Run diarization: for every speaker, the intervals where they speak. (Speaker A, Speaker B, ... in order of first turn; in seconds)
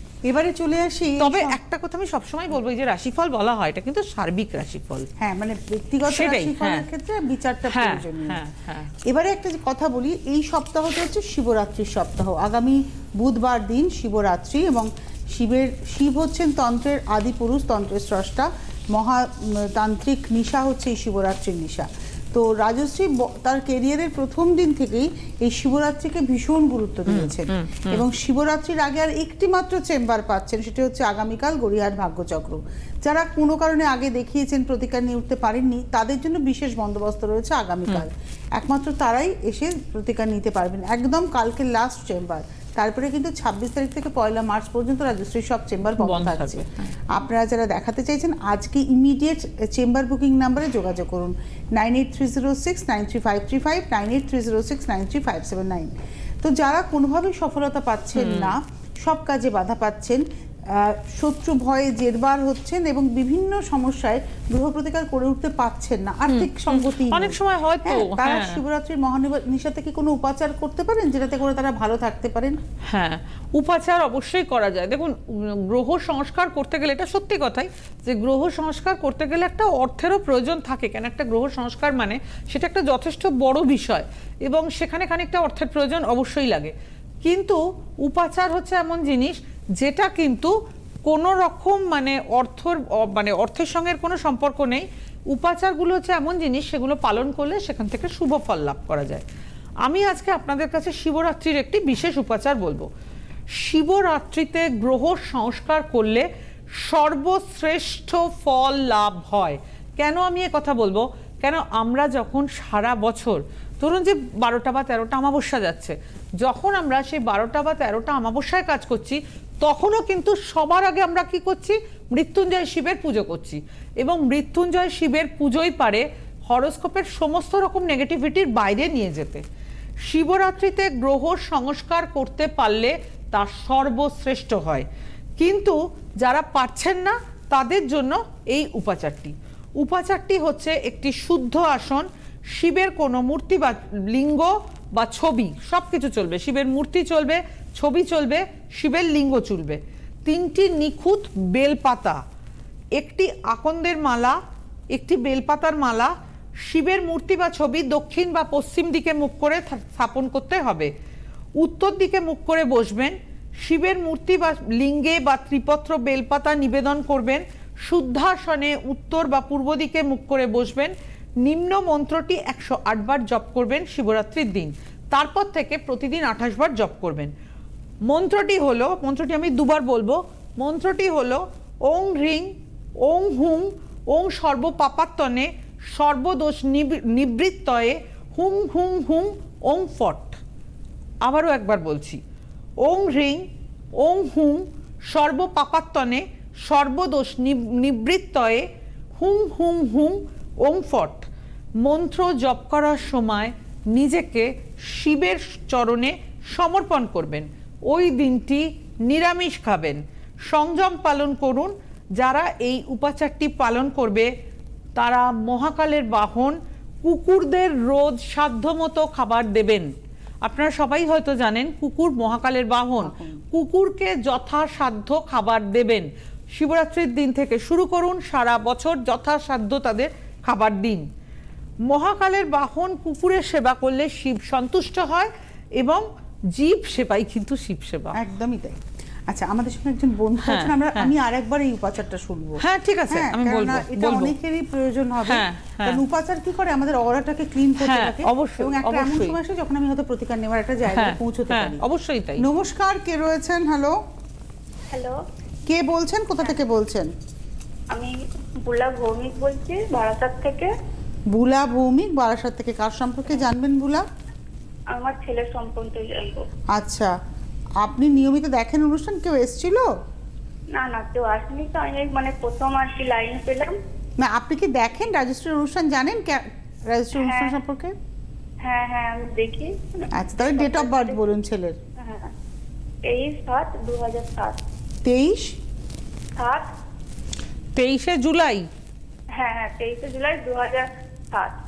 Speaker A: 0.2-1.6, 5.2-8.4, 9.0-72.6, 223.0-223.4, 238.1-251.8, 252.4-254.0, 255.7-257.1, 261.3-264.1, 266.7-267.1, 267.8-269.9, 274.2-277.9, 280.1-281.8, 285.1-285.6
Speaker B: 1.2-5.1, 6.1-6.9, 7.7-8.9, 27.1-28.0, 46.0-47.0, 58.2-58.6, 66.3-68.6, 72.8-90.5, 91.1-99.2, 99.8-102.9, 103.5-129.4, 130.1-134.9, 135.4-152.2, 152.9-154.4, 154.9-156.1, 156.7-160.9, 161.6-177.3, 178.1-190.4, 191.2-192.2, 192.8-201.3, 201.8-214.3, 215.0-219.9, 220.4-231.1, 231.9-238.2, 240.4-241.1, 242.6-244.3, 245.3-246.0, 247.8-249.4, 250.9-252.5, 287.8-288.7
Speaker C: 254.9-255.2, 257.9-260.7, 264.9-266.5, 270.7-273.8, 277.2-277.6, 278.6-281.3, 282.0-282.3, 283.1-284.6, 286.4-286.7, 289.3-291.6